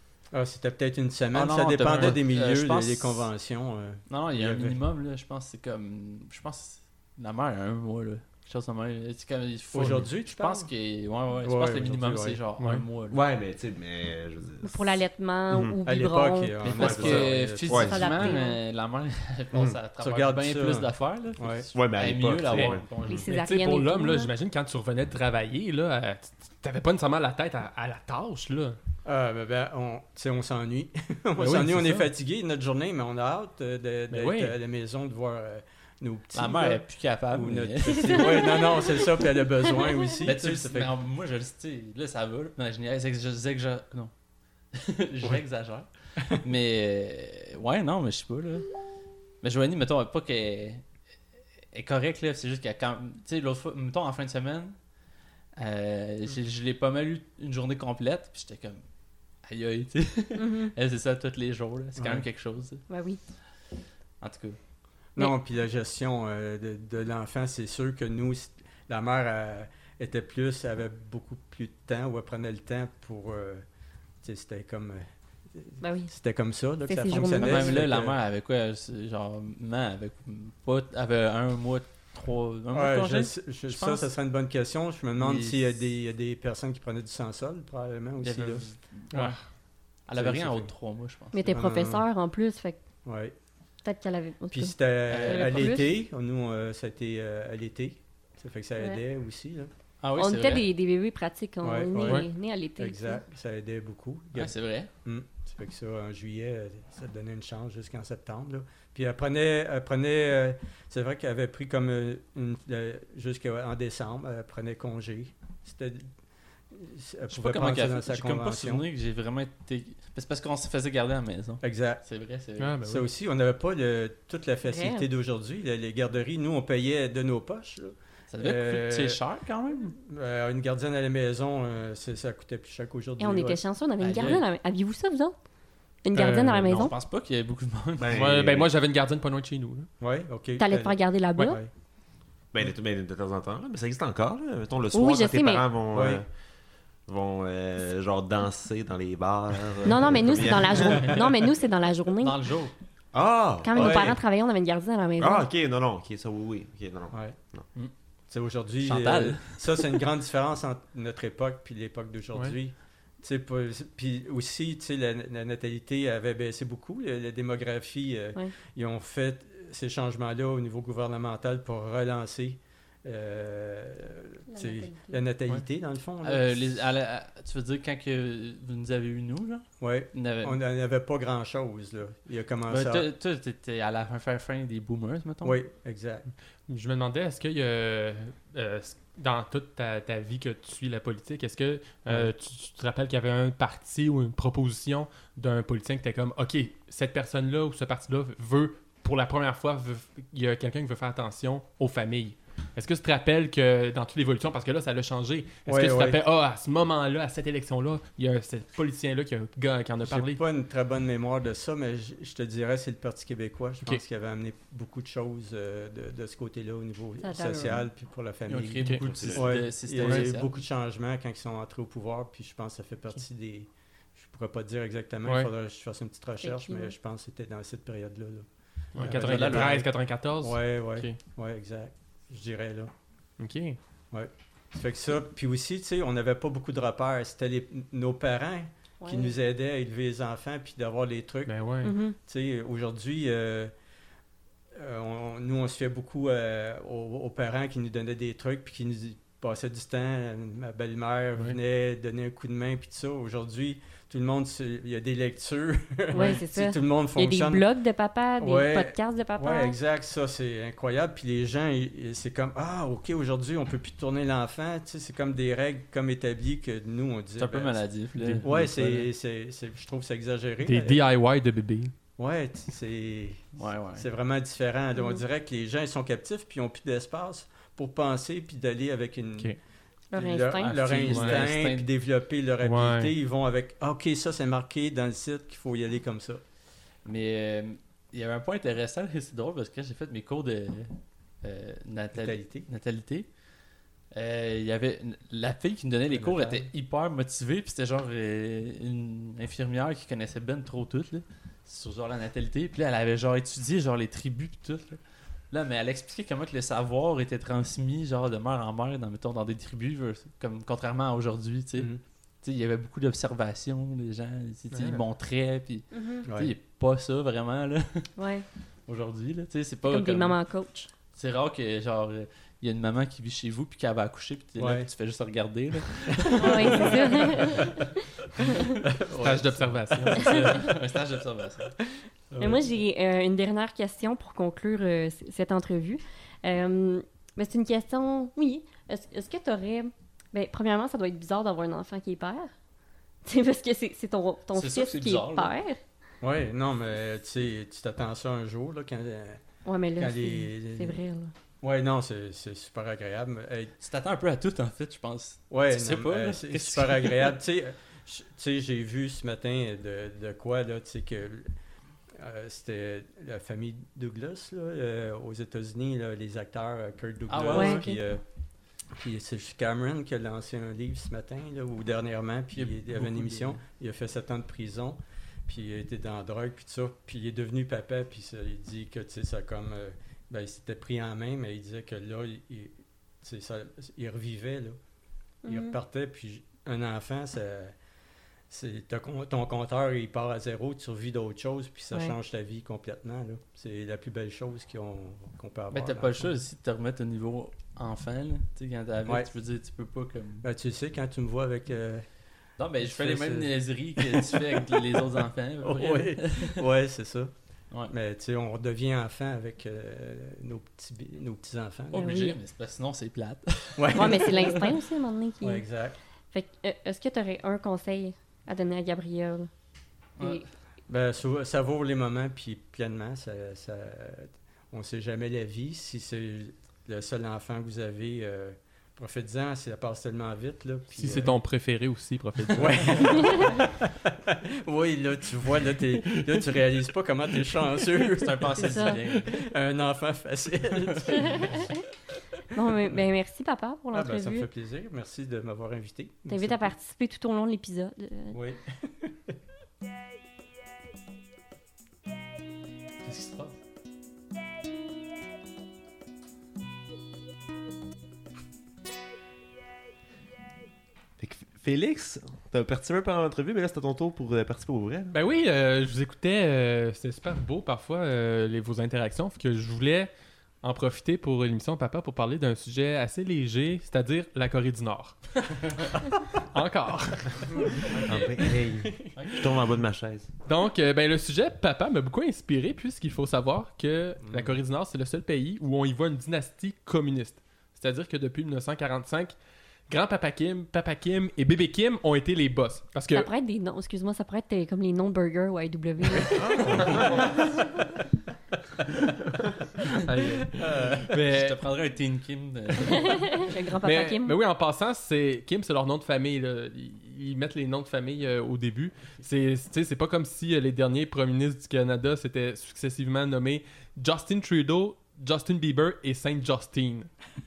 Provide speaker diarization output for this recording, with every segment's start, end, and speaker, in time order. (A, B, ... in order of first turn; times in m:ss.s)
0:00.3-0:04.8 A
0:01.3-0:03.3 B
0:04.1-0:13.2 B
0:09.7-0:10.7 A
0:11.4-0:12.4 A
0:12.6-0:12.8 C
0:13.1-0:15.0 D
0:14.6-0:17.1 E
0:15.5-0:15.8 D
0:15.8-0:18.0 A
0:16.6-0:23.3 B
0:16.7-0:18.4 D
0:17.7-0:18.6 E
0:20.0-0:21.7 A
0:21.7-0:22.8 D
0:22.5-0:28.8 C
0:23.0-0:24.3 E
0:29.0-0:40.9 A
0:31.4-0:32.1 C
0:34.1-0:34.6 C
0:36.3-0:38.8 B
0:38.0-0:38.9 E
0:40.2-0:44.1 B
0:44.7-0:48.7 B
0:49.4-0:50.8 B
0:51.7-0:54.8 B
0:55.6-0:58.8 B
0:59.4-1:02.8 B
1:00.4-1:00.7 E
1:02.0-1:02.3 A
1:02.9-1:03.2 E
1:04.2-1:04.6 B
1:05.2-1:13.6 A
1:14.2-1:18.2 A
1:15.8-1:16.1 E
1:16.9-1:17.8 E
1:17.2-1:24.1 B
1:22.7-1:28.6 A
1:25.2-1:25.7 B
1:28.2-1:29.4 B
1:29.1-1:29.4 C
1:30.1-1:31.4 B
1:30.2-1:30.7 A
1:31.3-1:32.8 E
1:31.5-1:32.1 A
1:33.0-1:33.3 A
1:33.8-1:35.9 E
1:34.5-1:39.7 A
1:35.1-1:35.8 B
1:40.0-1:40.7 B
1:40.2-1:43.2 E
1:41.6-1:42.3 A
1:42.0-1:42.3 C
1:42.8-1:44.5 A
1:44.4-1:44.9 B
1:45.0-1:56.1 A
1:56.7-1:58.9 A
1:57.3-2:02.8 B
2:01.6-2:02.0 A
2:02.6-2:03.1 C
2:02.8-2:09.2 A
2:04.6-2:05.1 E
2:08.3-2:09.9 B
2:09.9-2:13.6 A
2:13.2-2:15.4 E
2:14.0-2:14.4 B
2:16.0-2:16.9 E
2:16.1-2:16.9 C
2:16.7-2:18.3 B
2:18.0-2:18.7 D
2:18.1-2:19.9 C
2:20.0-2:21.7 A
2:20.6-2:21.6 E
2:22.5-2:26.3 D
2:24.9-2:25.6 E
2:25.9-2:26.2 A
2:27.1-2:31.3 D
2:29.8-2:32.4 E
2:30.8-2:31.2 B
2:32.2-2:32.7 B
2:33.1-2:34.2 D
2:33.6-2:35.5 E
2:33.8-2:34.2 A
2:35.2-2:37.6 D
2:38.3-2:56.7 A
2:38.8-2:40.0 B
2:54.5-2:55.2 E
2:56.2-3:00.6 B
2:59.8-3:03.1 A
3:02.7-3:05.6 B
3:05.4-3:06.3 A
3:06.7-3:30.4 C
3:25.7-3:26.2 A
3:30.0-3:52.9 A
3:37.2-3:37.9 E
3:38.5-3:40.6 B
3:39.1-3:39.5 D
3:40.0-3:40.3 C
3:45.2-3:45.5 C
3:46.4-3:46.9 E
3:49.0-3:51.2 C
3:49.0-3:49.8 B
3:53.4-3:53.8 C
3:54.1-4:01.6 A
3:59.0-3:59.4 E
4:01.5-4:02.0 C
4:01.8-4:02.2 E
4:02.1-4:03.7 A
4:04.8-4:17.6 A
4:16.1-4:19.8 E
4:18.4-4:27.8 A
4:27.4-4:29.1 B
4:28.2-4:28.7 C
4:28.4-4:31.0 A
4:30.6-4:31.9 C
4:32.2-4:39.6 A
4:33.6-4:34.1 B
4:35.0-4:35.2 E
4:40.1-4:40.8 E
4:40.2-4:46.4 A
4:40.6-4:41.9 B
4:41.1-4:41.4 C
4:42.6-4:43.1 C
4:47.0-4:53.3 B
4:52.2-4:52.7 A
4:54.1-5:05.0 B
4:56.1-4:56.7 A
5:05.5-5:18.1 B
5:14.7-5:15.0 C
5:15.9-5:16.3 E
5:16.3-5:16.5 A
5:18.2-5:18.5 E
5:18.9-5:20.4 B
5:19.9-5:20.9 E
5:21.1-5:27.8 B
5:24.6-5:24.9 A
5:26.1-5:27.3 A
5:26.3-5:27.9 E
5:28.8-5:30.7 A
5:29.2-5:30.6 C
5:30.1-5:31.8 B
5:32.3-5:32.7 A
5:32.4-5:42.5 E
5:43.2-5:45.8 E
5:44.6-5:45.5 B
5:46.2-5:49.4 A
5:49.6-5:51.3 E
5:50.0-5:51.0 A
5:51.6-5:53.7 A
5:53.8-5:57.4 B
5:55.5-6:01.5 A
6:02.2-6:08.2 A
6:07.3-6:07.9 B
6:07.5-6:08.0 E
6:09.0-6:24.8 A
6:12.5-6:13.6 B
6:25.4-6:25.8 E
6:25.5-6:27.7 A
6:28.5-6:36.3 A
6:35.7-6:40.5 B
6:40.4-6:42.1 A
6:42.6-6:46.6 B
6:42.8-6:45.0 A
6:45.6-6:47.3 A
6:47.9-6:52.1 A
6:51.9-6:54.7 B
6:51.9-6:52.4 E
6:53.8-6:54.6 A
6:53.9-6:55.7 E
6:55.4-6:56.0 A
6:56.3-6:59.5 E
7:00.2-7:00.4 B
7:00.2-7:00.5 E
7:00.9-7:11.4 A
7:10.9-7:13.4 C
7:12.6-7:21.7 A
7:16.0-7:16.5 C
7:18.0-7:19.5 B
7:18.6-7:19.0 E
7:21.2-7:21.7 E
7:22.5-7:24.5 E
7:23.9-7:26.6 A
7:26.3-7:28.4 E
7:28.3-7:29.1 A
7:33.0-7:33.6 B
7:41.2-7:45.2 D
7:45.1-7:50.1 C
7:50.6-7:55.2 C
7:56.0-7:59.4 C
7:57.9-7:58.4 B
7:58.1-8:00.3 D
7:59.2-7:59.5 B
8:00.4-8:09.4 C
8:04.2-8:04.6 A
8:09.9-8:13.3 C
8:13.1-8:16.8 E
8:16.6-8:17.2 A
8:16.6-8:17.4 C
8:16.6-8:17.1 D
8:20.1-8:21.6 C
8:20.6-8:21.0 A
8:20.8-8:23.5 B
8:22.8-8:23.3 C
8:23.0-8:24.4 E
8:23.8-8:37.1 C